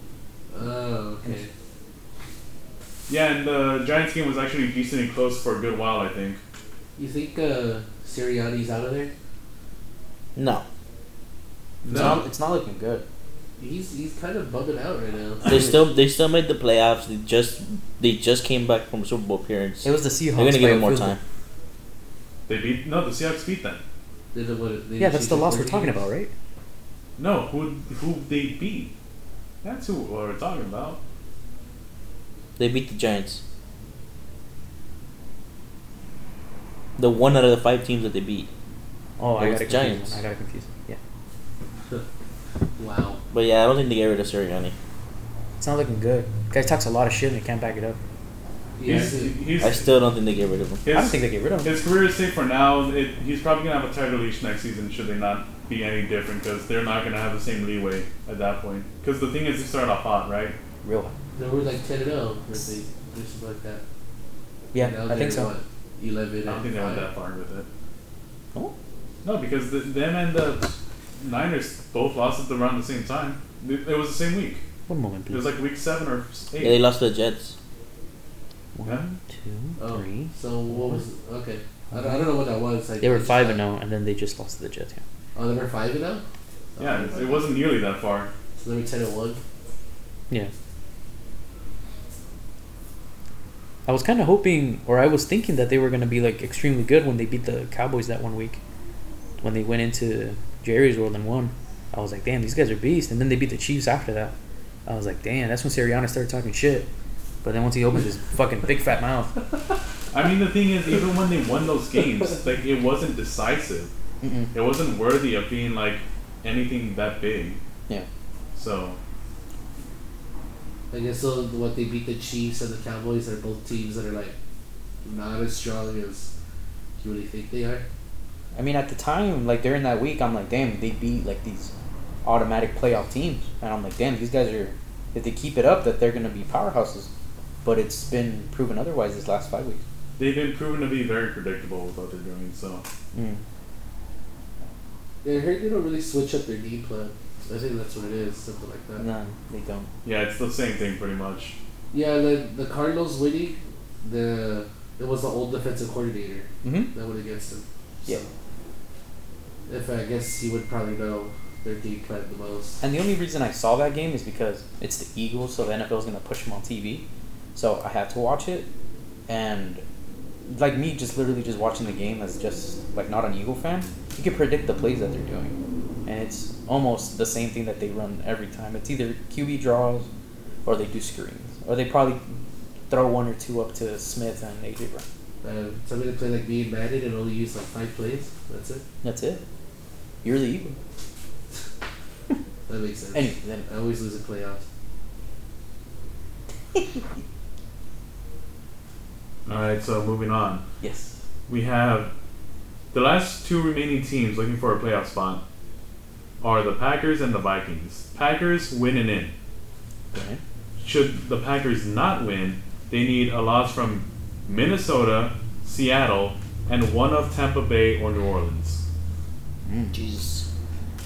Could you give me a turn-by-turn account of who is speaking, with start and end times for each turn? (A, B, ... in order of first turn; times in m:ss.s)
0:00.5-0:01.5 A
0:03.1-0:06.4 B
0:07.0-0:09.1 A
0:10.4-0:10.6 C
0:11.8-0:12.2 B
0:11.9-0:13.0 D
0:11.9-0:12.2 A
0:13.6-0:15.8 A
0:15.4-0:21.2 C
0:19.8-0:21.2 D
0:22.5-0:23.8 B
0:24.3-0:26.0 A
0:25.0-0:26.3 D
0:27.2-0:28.9 B
0:29.6-0:31.0 B
0:32.6-0:33.4 C
0:37.0-0:38.5 C
0:39.2-0:41.0 D
0:39.4-0:40.2 C
0:42.8-0:43.2 A
0:43.3-0:44.7 C
0:45.6-0:48.0 D
0:48.8-0:49.3 A
0:48.8-0:49.9 B
0:49.6-0:50.8 C
0:50.8-1:00.6 B
0:50.9-0:51.8 D
1:00.8-1:01.1 D
1:01.3-1:03.8 A
1:04.7-1:05.5 D
1:04.8-1:07.1 A
1:06.4-1:07.7 B
1:09.2-1:14.6 B
1:14.9-1:15.5 D
1:15.3-1:16.8 B
1:16.6-1:17.6 C
1:18.7-1:21.0 D
1:19.8-1:23.6 A
1:21.9-1:22.3 D
1:23.0-1:25.0 D
1:25.3-1:26.2 A
1:26.8-1:27.4 A
1:26.8-1:28.3 B
1:28.6-1:29.4 A
1:33.8-1:38.6 D
1:39.4-1:44.3 D
1:44.8-1:46.9 D
1:47.4-1:49.3 D
1:50.1-1:53.9 B
1:54.2-1:54.5 D
1:54.5-1:57.6 B
1:58.5-1:59.0 B
2:00.9-2:04.3 A
2:05.0-2:06.3 A
2:07.0-2:07.8 A
2:08.5-2:11.7 D
2:12.2-2:17.1 D
2:17.6-2:19.8 D
2:20.2-2:22.8 B
2:23.1-2:23.4 D
2:25.2-2:29.0 A
2:29.0-2:29.9 D
2:30.0-2:31.6 B
2:31.9-2:38.3 A
2:36.6-2:36.9 D
2:39.7-2:42.8 A
2:42.8-2:48.7 D
2:49.3-2:49.8 D
2:50.5-2:55.5 D
2:56.0-3:00.1 D
3:00.6-3:02.2 D
3:02.9-3:05.0 D
3:05.4-3:08.8 A
3:09.0-3:09.4 D
3:10.2-3:10.8 D
3:12.7-3:14.6 A
3:13.1-3:13.7 D
3:19.4-3:20.6 B
3:20.8-3:21.1 D
3:21.5-3:22.1 B
3:22.9-3:25.4 B
3:26.4-3:29.3 B
3:30.1-3:30.4 D
3:30.8-3:38.8 B
3:39.6-3:40.0 D
3:39.9-3:40.4 C